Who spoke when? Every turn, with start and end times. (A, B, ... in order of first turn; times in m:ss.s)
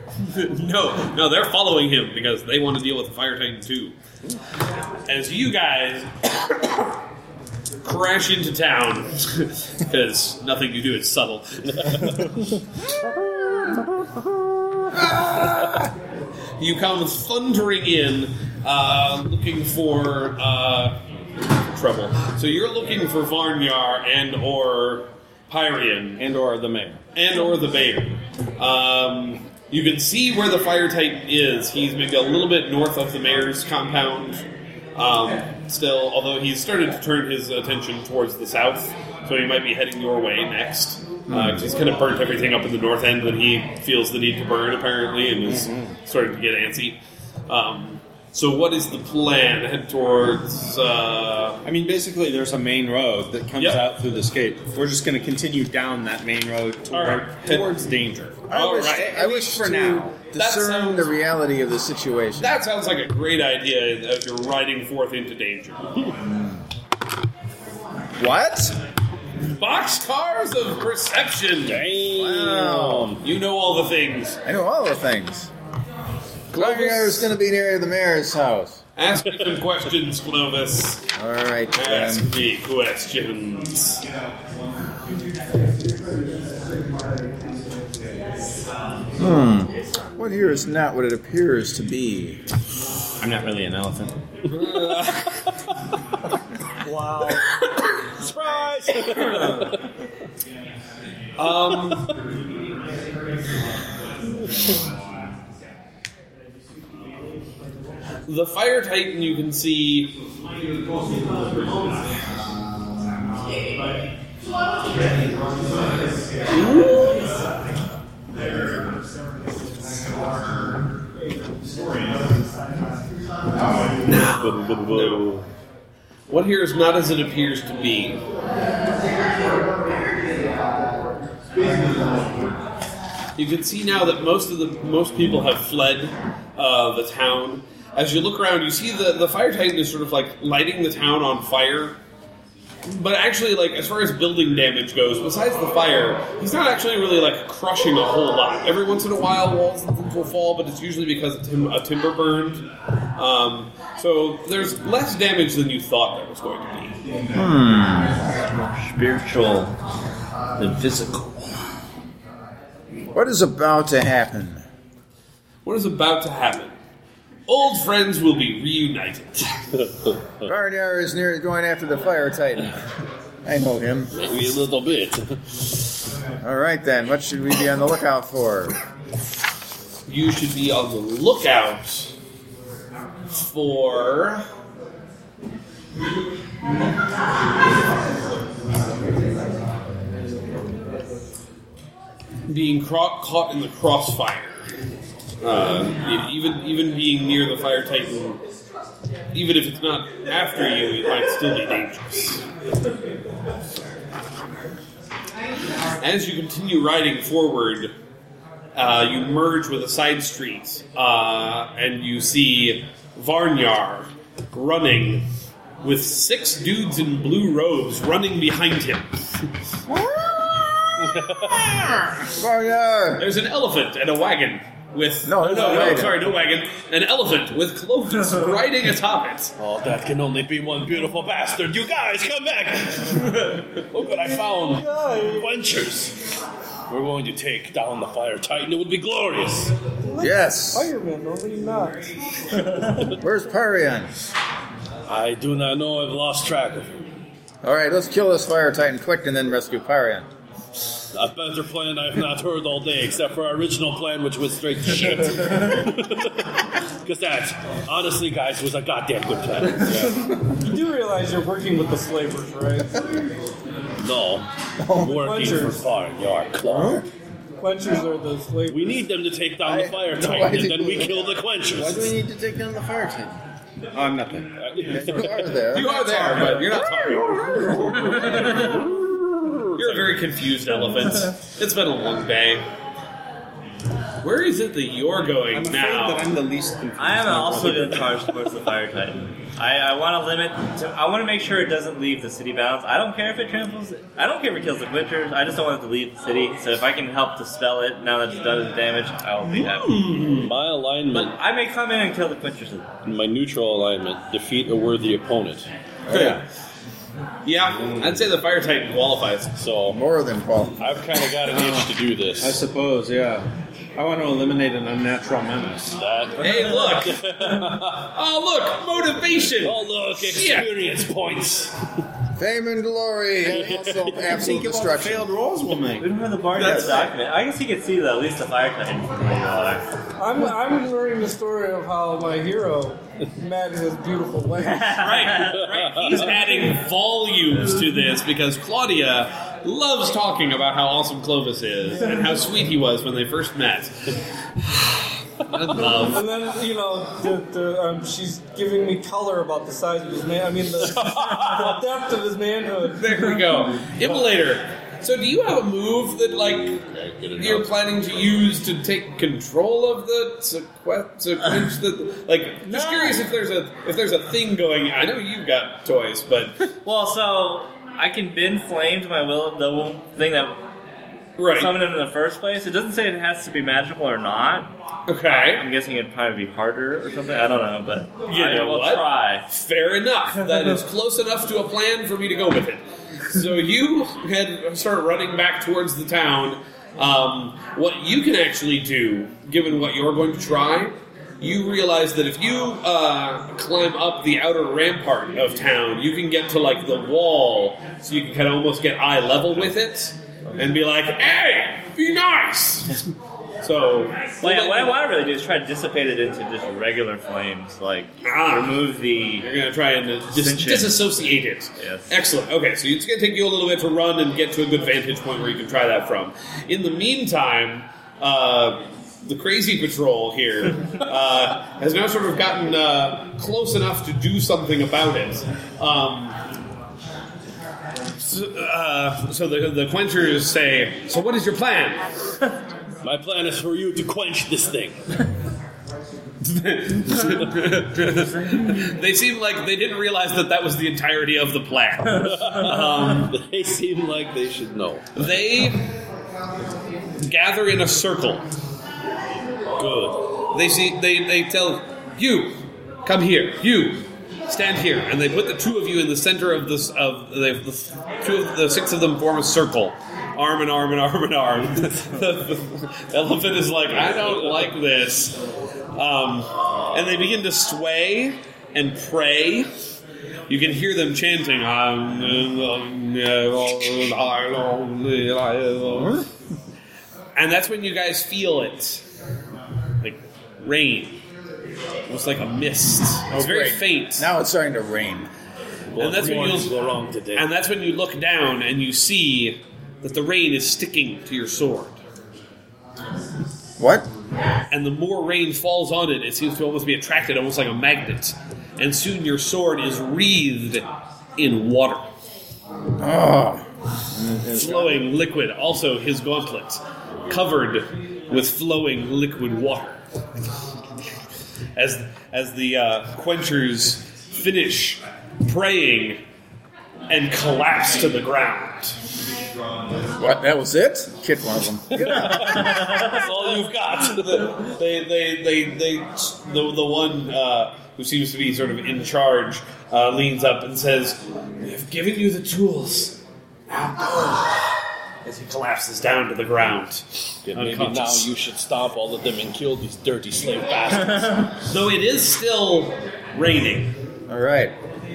0:00.2-0:04.0 A
0:05.1-0:07.0 A
0:07.8-0:12.3 A
0:11.7-0:12.4 B
0:15.2-0:15.8 A
0:16.6-0:21.0 A
0:21.6-0:26.2 A
0:26.2-0:27.0 C
0:27.1-0:51.6 A
0:41.3-0:41.6 D
0:45.4-0:46.0 C
0:51.6-1:00.2 C
0:53.6-0:53.8 A
0:56.9-0:57.8 A
0:58.5-0:59.4 A
0:58.5-1:02.6 D
1:00.3-1:01.1 A
1:02.4-1:05.8 A
1:08.2-1:08.8 D
1:09.5-1:11.9 A
1:11.7-1:13.2 B
1:12.1-1:13.2 D
1:13.2-1:14.4 A
1:14.4-1:15.5 D
1:16.5-1:17.3 A
1:16.5-1:18.8 D
1:19.0-1:21.1 A
1:21.2-1:22.3 D
1:21.7-1:24.0 A
1:29.2-1:32.4 D
1:33.2-1:34.1 C
1:34.5-1:35.4 A
1:36.9-1:37.4 E
1:38.2-1:39.8 B
1:39.2-1:39.6 A
1:41.4-1:42.1 A
1:48.3-1:50.2 A
1:56.5-1:57.3 A
2:04.1-2:05.3 A
2:04.3-2:05.4 B
2:06.3-2:08.2 A
2:13.4-2:22.0 A
2:22.9-2:37.0 A
2:37.4-2:38.2 D
2:38.5-2:39.8 F
2:40.6-2:41.7 F
2:43.1-2:44.6 D
2:45.6-2:46.8 A
2:47.5-2:49.6 A
2:49.8-2:50.5 B
2:50.4-2:52.8 D
2:53.4-2:54.1 D
2:54.1-2:55.6 B
2:56.4-2:58.8 D
3:00.1-3:02.1 A
3:03.3-3:04.4 A
3:12.5-3:14.6 A
3:15.4-3:18.4 A
3:19.3-3:22.4 A
3:26.0-3:27.9 A
3:28.8-3:35.3 A
3:35.8-3:39.4 A
3:39.9-3:43.3 D
3:41.0-3:41.9 B
3:43.2-3:49.5 A
3:45.2-3:46.3 D
3:49.6-3:56.4 B
3:54.6-3:55.5 E
3:56.9-3:59.7 B
4:00.0-4:02.2 E
4:00.2-4:00.9 D
4:03.1-4:04.1 D
4:05.1-4:07.0 B
4:07.6-4:10.3 D
4:11.1-4:20.3 B
4:20.6-4:23.1 E
4:24.0-4:27.1 B
4:24.8-4:25.2 D
4:25.2-4:25.8 E
4:26.7-4:27.0 D
4:27.6-4:29.0 E
4:28.7-4:32.2 B
4:29.6-4:31.4 D
4:31.7-4:33.4 C
4:33.9-4:35.1 C
4:34.6-4:35.6 B
4:34.9-4:38.2 D
4:35.7-4:38.7 A
4:38.2-4:38.9 B
4:39.8-4:42.7 A
4:44.2-4:46.3 A
4:45.5-4:48.0 C
4:47.0-5:00.1 F
4:59.5-5:00.5 A
5:00.4-5:01.3 B
5:01.1-5:02.9 F
5:03.0-5:05.7 B
5:06.1-5:06.4 C
5:06.1-5:06.4 A
5:07.4-5:09.5 A
5:07.8-5:08.1 C
5:09.6-5:10.0 B
5:09.9-5:10.8 D
5:10.8-5:12.6 B
5:11.5-5:11.9 C
5:12.4-5:16.0 C
5:16.0-5:18.1 B
5:16.4-5:17.2 A
5:17.8-5:20.7 A
5:19.6-5:21.8 B
5:22.4-5:25.3 D
5:23.5-5:24.4 B
5:24.3-5:26.1 C
5:26.0-5:29.8 F
5:26.6-5:27.1 A
5:30.2-5:35.0 E
5:34.6-5:36.4 F
5:34.9-5:46.2 A
5:35.6-5:36.3 B
5:46.0-5:53.1 E
5:51.0-5:51.7 B
5:53.0-5:56.8 A
5:56.8-5:58.4 B
5:57.4-6:06.6 A
6:02.7-6:03.2 F
6:06.8-6:10.6 F
6:11.4-6:11.7 A
6:11.5-6:14.7 F
6:15.1-6:15.7 A
6:15.3-6:19.4 F
6:18.3-6:43.1 A
6:43.6-6:45.0 A
6:44.4-6:49.5 F
6:48.2-6:48.9 A
6:49.4-7:06.4 A
6:50.3-6:51.0 F
6:51.8-6:52.1 F
7:08.2-7:12.1 A
7:13.0-7:15.0 B
7:16.4-7:23.3 A
7:22.1-7:25.3 B
7:25.2-7:25.9 A
7:27.2-7:28.4 A
7:29.8-7:45.4 A
7:45.9-7:49.7 A
7:50.5-7:56.3 A
7:56.0-7:56.2 D
7:57.4-7:59.0 A
8:00.0-8:01.2 A
8:02.1-8:04.3 A
8:03.3-8:05.3 D
8:06.0-8:07.5 B
8:06.0-8:06.7 A
8:07.3-8:12.0 A
8:13.8-8:14.1 D
8:14.7-8:20.9 A
8:21.4-8:22.1 A
8:23.0-8:24.6 D
8:24.4-8:25.0 C
8:24.6-8:30.0 A
8:31.8-8:36.2 A
8:37.1-8:39.0 A
8:40.2-8:42.6 D
8:42.0-8:44.6 B
8:44.0-8:58.3 A
8:57.5-9:01.5 B
9:01.6-9:03.9 A
9:04.3-9:04.8 D